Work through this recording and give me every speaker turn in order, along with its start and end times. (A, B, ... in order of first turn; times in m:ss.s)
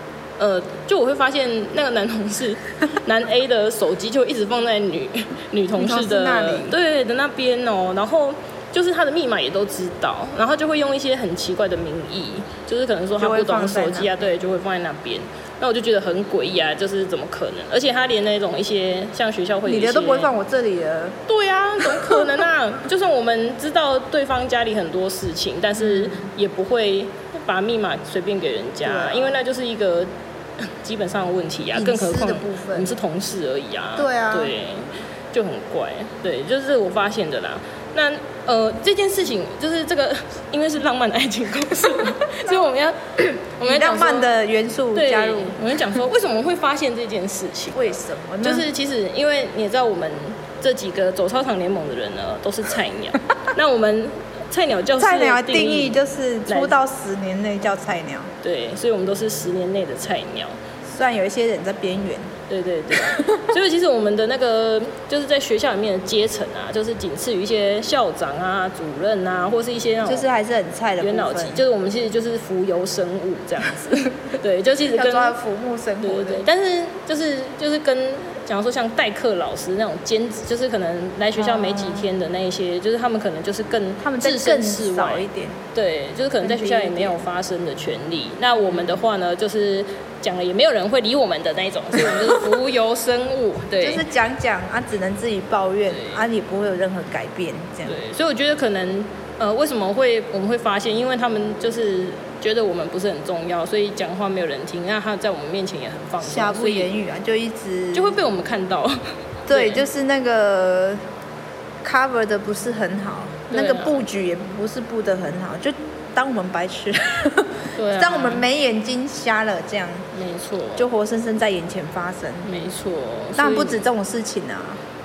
0:00.4-0:20.3 A
0:05.8-0:06.7 B
0:13.2-0:14.1 B
0:19.6-0:21.2 B
0:21.3-0:44.3 A
0:21.9-0:22.2 B
0:25.8-0:26.2 B
0:28.8-0:29.4 B
0:31.7-0:32.9 B
0:34.0-0:34.5 B
0:43.6-0:45.8 B
0:44.9-0:56.8 A
0:47.7-0:48.7 B
0:55.0-0:58.3 B
0:58.4-1:00.6 A
1:00.8-1:02.3 B
1:02.5-1:10.3 A
1:02.9-1:03.4 B
1:10.0-1:11.6 B
1:11.0-1:15.4 A
1:14.9-1:16.4 B
1:16.0-1:34.0 A
1:21.4-1:22.1 B
1:24.0-1:25.6 B
1:26.4-1:27.2 B
1:28.6-1:29.0 B
1:33.8-1:38.0 B
1:35.9-1:36.2 A
1:37.8-1:46.9 A
1:46.2-1:48.1 B
1:47.9-1:49.8 A
1:49.5-1:51.0 B
1:51.8-2:00.0 B
1:53.5-1:54.0 A
1:57.8-1:58.4 A
2:00.1-2:00.9 A
2:00.8-2:02.5 B
2:02.4-2:03.8 A
2:03.4-2:04.8 B